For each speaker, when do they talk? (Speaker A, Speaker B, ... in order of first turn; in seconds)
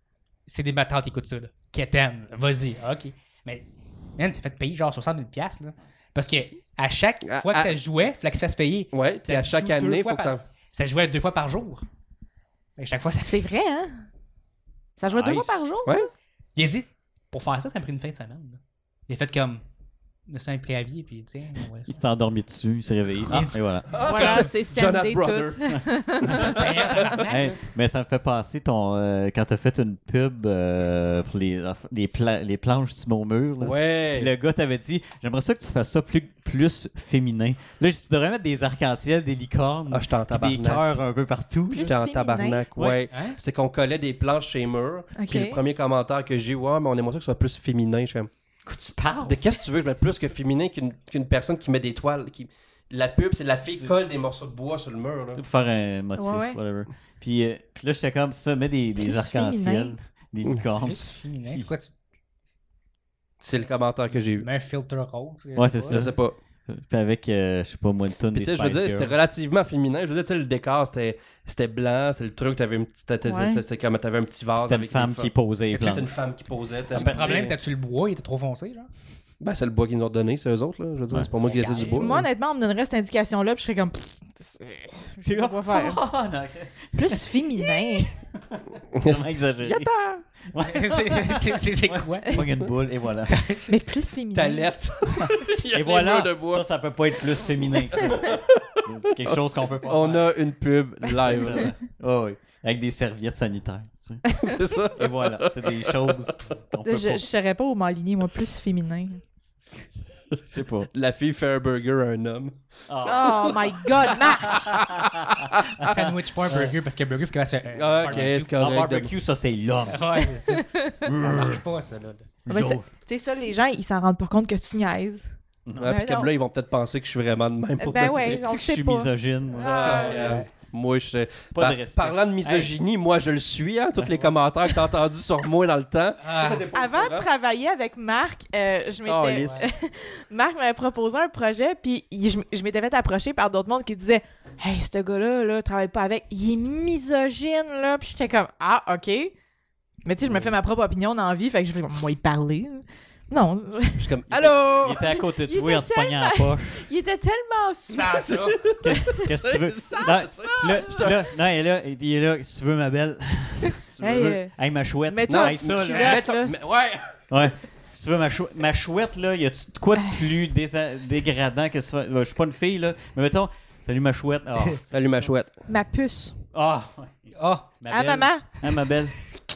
Speaker A: 0.5-11.8, 12.8-13.4, 16.6-19.6, 20.3-22.0, 23.2-24.4, 26.2-27.6, 43.1-43.4, 60.7-61.9, 64.3-66.0, 75.7-76.0, 76.9-78.9, 81.4-82.1, 90.6-92.5, 93.3-93.7, 115.8-118.6, 119.9-122.3, 130.1-130.4, 136.2-136.7, 139.4-139.7, 157.9-158.6, 177.4-177.7
Speaker B: 7.2-7.7, 8.9-10.4, 23.9-27.2, 33.6-34.3, 39.9-41.0, 41.8-48.3, 49.2-55.4, 63.4-64.5, 65.9-66.4, 68.3-77.5, 79.4-82.2, 88.9-89.5, 94.3-96.7, 97.9-98.5, 99.2-101.8, 104.4-106.2, 110.9-112.6, 113.2-116.0, 117.7-119.1, 125.8-128.4, 129.6-137.3, 139.1-139.7, 154.0-155.1, 158.3-161.2, 163.8-164.4, 165.3-167.2, 174.9-175.5
Speaker C: 13.2-14.0, 15.0-16.1, 24.0-27.0, 41.7-42.6, 45.2-45.6, 56.2-56.6, 59.0-59.9, 73.2-73.6, 82.0-86.0, 86.9-88.1, 89.7-90.2, 93.7-94.7, 106.8-109.2, 113.0-114.7, 120.3-121.1, 122.5-126.3, 127.8-130.5, 136.7-149.3, 150.1-154.1, 154.8-158.3, 158.9-159.2, 159.9-160.8, 164.0-164.6, 165.1-166.5, 175.7-176.4, 177.9-178.5
Speaker D: 15.1-15.7, 21.9-24.4, 25.7-26.6, 27.3-42.0, 48.7-49.4, 55.4-61.7, 65.5-69.1, 74.6-76.1, 76.9-77.5, 81.1-81.9, 85.2-87.3, 87.9-93.5, 95.3-100.3, 101.1-107.3, 110.4-110.9, 112.9-116.7, 118.0-120.2, 121.0-121.6, 122.5-122.8, 125.7-126.0, 128.1-130.5, 131.5-132.7, 134.0-134.3, 154.3-156.9, 158.8-166.3, 167.3-175.3, 176.5-179.2